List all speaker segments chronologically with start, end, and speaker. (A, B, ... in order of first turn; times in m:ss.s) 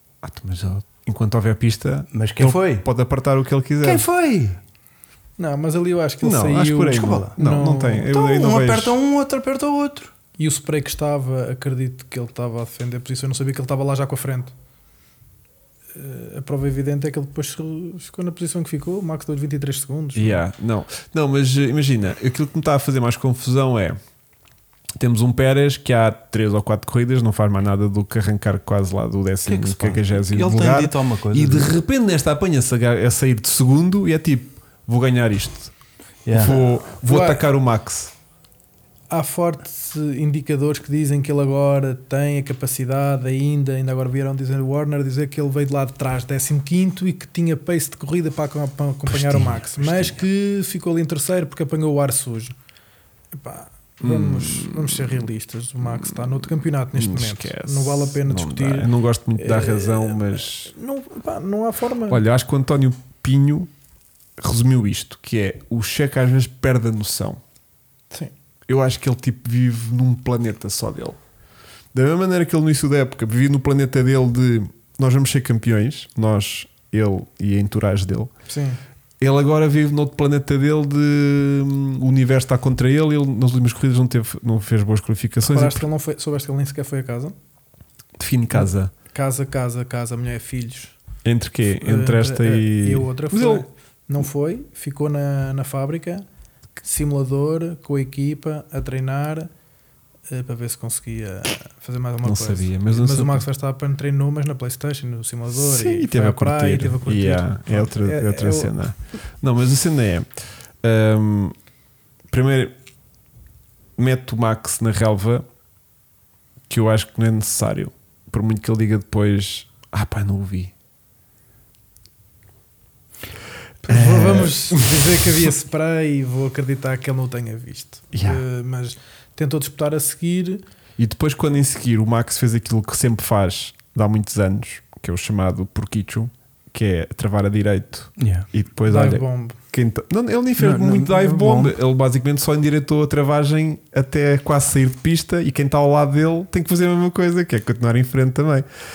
0:00.2-0:04.0 A
0:02.1-0:02.8 B
0:03.8-0:04.6 B
0:05.4-0:08.1 C
0:06.2-0:09.0 A
0:06.9-0:07.3 B
0:08.0-0:10.1 B
0:10.4-0:14.5 C
0:15.9-0:20.4 C
0:20.1-0:24.0 A
0:25.0-0:35.7 A
0:29.4-0:31.7 B
0:36.2-0:36.6 B
0:36.3-0:38.1 A
0:37.0-0:37.4 C
0:39.1-0:52.5 C
0:49.1-0:50.2 A
0:53.3-1:02.2 C
0:54.0-0:55.2 A
0:55.8-1:00.7 A
1:02.1-1:03.7 A
1:04.4-1:07.4 A
1:08.7-1:11.2 A
1:11.9-1:18.3 A
1:18.5-1:18.8 C
1:19.2-1:25.8 A
1:25.4-1:27.3 C
1:28.2-1:28.9 A
1:28.5-1:31.0 C
1:31.2-1:33.6 A
1:31.8-1:36.2 C
1:36.8-1:39.5 C
1:40.3-1:48.7 C
1:42.2-1:43.4 A
1:45.5-1:50.3 A
1:50.8-1:51.5 A
1:52.3-1:52.7 A
1:54.0-1:55.4 A
1:56.7-2:00.7 A
2:03.8-2:10.6 C
2:03.9-2:05.4 A
2:08.1-2:08.4 A
2:11.0-2:28.6 A
2:18.2-2:18.5 B
2:18.8-2:19.6 C
2:20.6-2:21.8 B